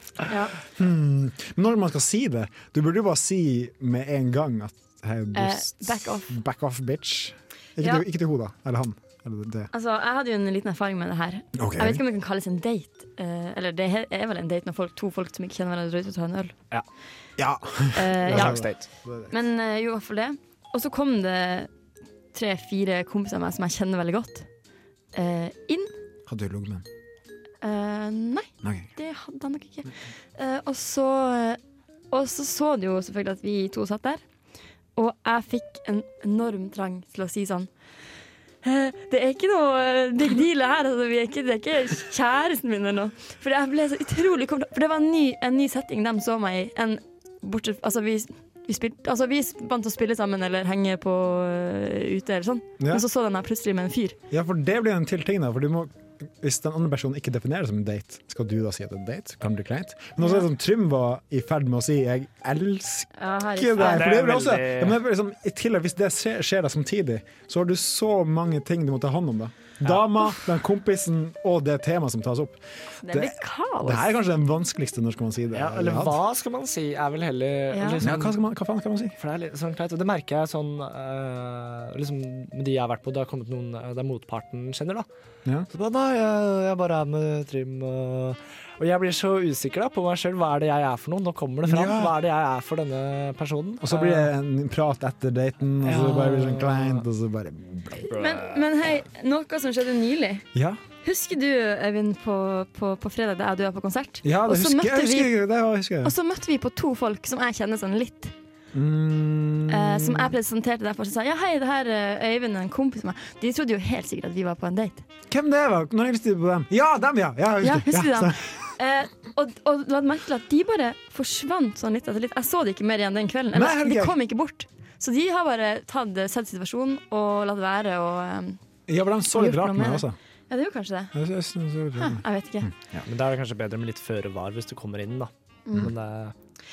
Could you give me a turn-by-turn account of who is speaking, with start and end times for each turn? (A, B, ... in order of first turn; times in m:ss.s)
0:00.3-0:00.6 A
0:00.8-0:09.7 B
0:05.3-0:06.3 A
0:09.7-0:16.6 A
0:11.6-0:12.0 B
0:17.4-0:19.3 B
0:17.9-0:18.7 A
0:18.3-0:18.9 C
0:19.3-0:21.7 A
0:22.3-0:24.5 A
0:25.1-0:25.9 A
0:26.3-0:26.8 B
0:27.6-0:31.6 A
0:28.6-0:28.9 B
0:32.1-0:34.2 A
0:35.0-0:37.7 A
0:38.6-0:54.2 A
0:54.3-1:16.2 B
1:00.2-1:00.4 A
1:03.2-1:04.2 A
1:03.8-1:05.0 C
1:13.0-1:14.2 A
1:15.5-1:18.4 C
1:17.7-1:18.0 A
1:18.0-1:19.2 B
1:19.2-1:25.1 C
1:25.7-1:34.3 C
1:31.7-1:32.2 B
1:33.8-1:38.2 B
1:35.8-1:37.0 C
1:38.1-1:40.5 A
1:40.5-1:40.8 B
1:41.0-1:45.3 A
1:44.2-1:46.2 B
1:46.0-1:48.3 A
1:48.7-1:50.4 B
1:49.7-1:55.0 A
1:55.3-1:58.7 B
1:57.6-2:08.6 A
2:03.5-2:04.2 B
2:08.9-2:10.2 B
2:09.3-2:11.1 A
2:11.1-2:13.1 B
2:12.0-2:12.7 A
2:13.1-2:16.4 C